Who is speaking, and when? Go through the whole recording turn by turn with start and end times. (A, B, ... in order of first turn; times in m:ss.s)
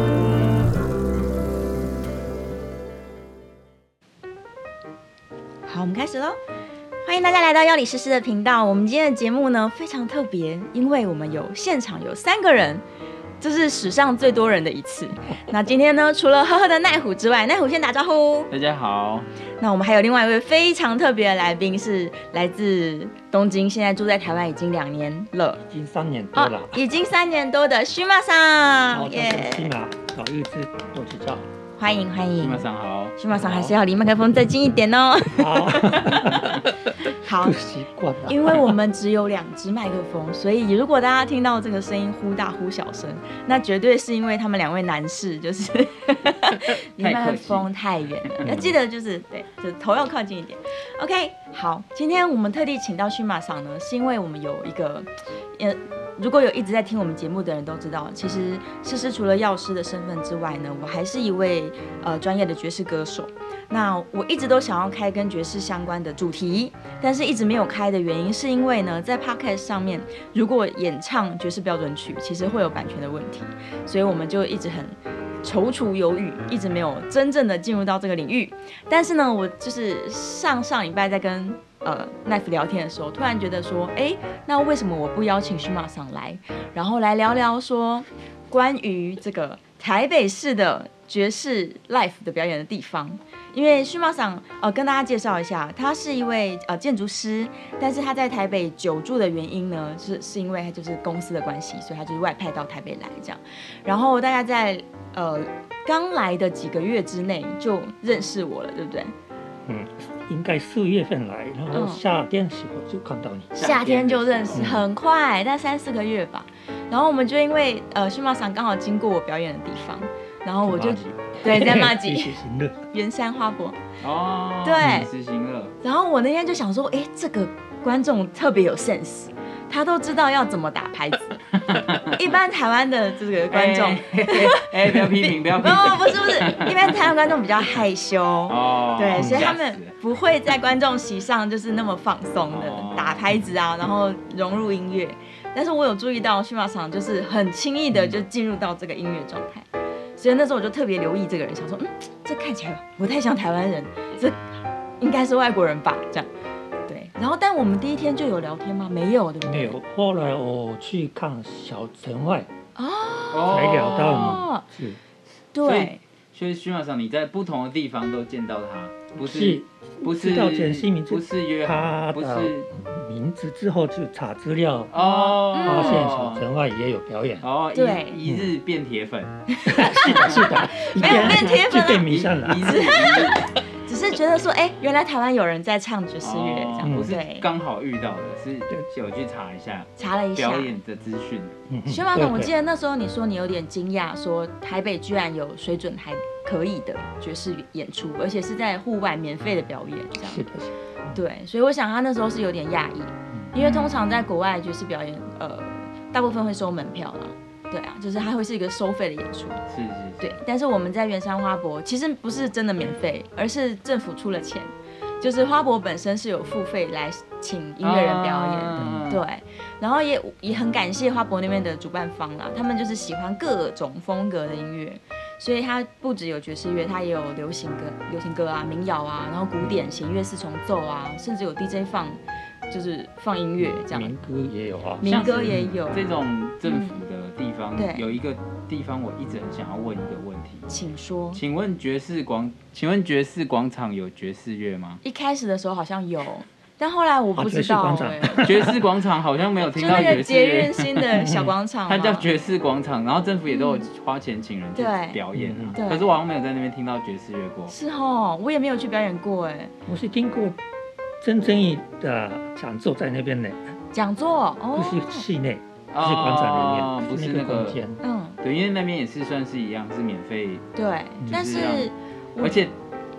0:05.6-0:06.4 A
0:07.0-0:12.8 A
0:13.4-0:18.5 A
0:18.5-0:19.3 B
0:19.6-0:25.6 A
0:25.7-0:26.8 C
0:26.4-0:29.7 A
0:28.9-0:31.5 C
0:31.8-0:32.7 A
0:32.4-0:33.2 B
0:33.2-0:36.6 A
0:33.3-0:33.8 C
0:35.4-0:38.8 C
0:37.0-0:37.6 A
0:38.3-1:49.1 A
0:47.0-0:47.7 B
0:48.4-0:48.7 C
1:49.7-1:53.5 C
1:51.7-1:52.0 A
1:53.5-2:02.3 A
1:53.6-1:54.7 B
1:54.5-1:54.8 C
2:00.6-2:02.8 C
2:02.9-2:03.8 A
2:04.0-2:05.8 B
2:04.6-2:05.1 A
2:04.8-2:05.1 C
2:05.8-2:36.3 A
2:11.6-2:12.2 B
2:13.5-2:17.1 B
2:18.5-2:19.9 B
2:19.1-2:19.5 C
2:22.5-2:23.2 B
2:36.9-2:39.8 A
2:39.4-2:42.5 C
2:42.8-2:44.6 A
2:43.3-2:44.4 B
2:43.5-2:45.0 C
2:45.5-2:46.0 A
2:45.6-2:52.7 B
2:49.2-2:54.9 C
2:54.9-2:56.4 B
2:54.9-2:56.1 A
2:55.6-2:57.4 C
2:57.4-2:59.4 B
2:57.7-2:58.2 A
2:58.2-2:58.5 C
2:59.5-3:02.1 A
2:59.7-3:02.8 C
3:00.0-3:03.5 B
3:02.6-3:07.4 A
3:06.2-3:11.5 B
3:06.8-3:07.1 C
3:10.0-3:10.7 A
3:11.7-3:12.5 C
3:11.9-3:20.4 A
3:20.2-3:21.2 C
3:21.1-3:29.6 A
3:23.6-3:24.0 B
3:29.7-3:30.4 B
3:30.2-3:54.1 A
3:37.8-3:39.2 B
3:38.8-3:39.1 C
3:49.6-3:49.9 C
3:53.6-3:55.7 C
3:55.0-3:56.0 A
3:55.0-4:00.7 B
3:56.7-3:57.0 A
3:57.8-3:58.1 A
4:00.7-4:01.4 A
4:01.3-4:05.0 B
4:05.0-4:08.5 A
4:07.4-4:08.9 C
4:08.4-4:11.3 B
4:09.8-4:12.3 A
4:11.1-4:11.5 C
4:11.9-4:17.7 B
4:13.5-4:13.9 A
4:14.8-4:15.2 A
4:15.3-4:15.8 C
4:15.8-4:16.1 A
4:17.7-4:19.7 A
4:19.9-4:20.6 C
4:21.2-4:23.8 C
4:23.9-4:25.2 A
4:24.8-4:28.0 C
4:25.9-4:27.8 B
4:28.0-4:28.4 A
4:28.4-4:30.6 B
4:30.8-4:32.6 A
4:31.3-4:32.8 B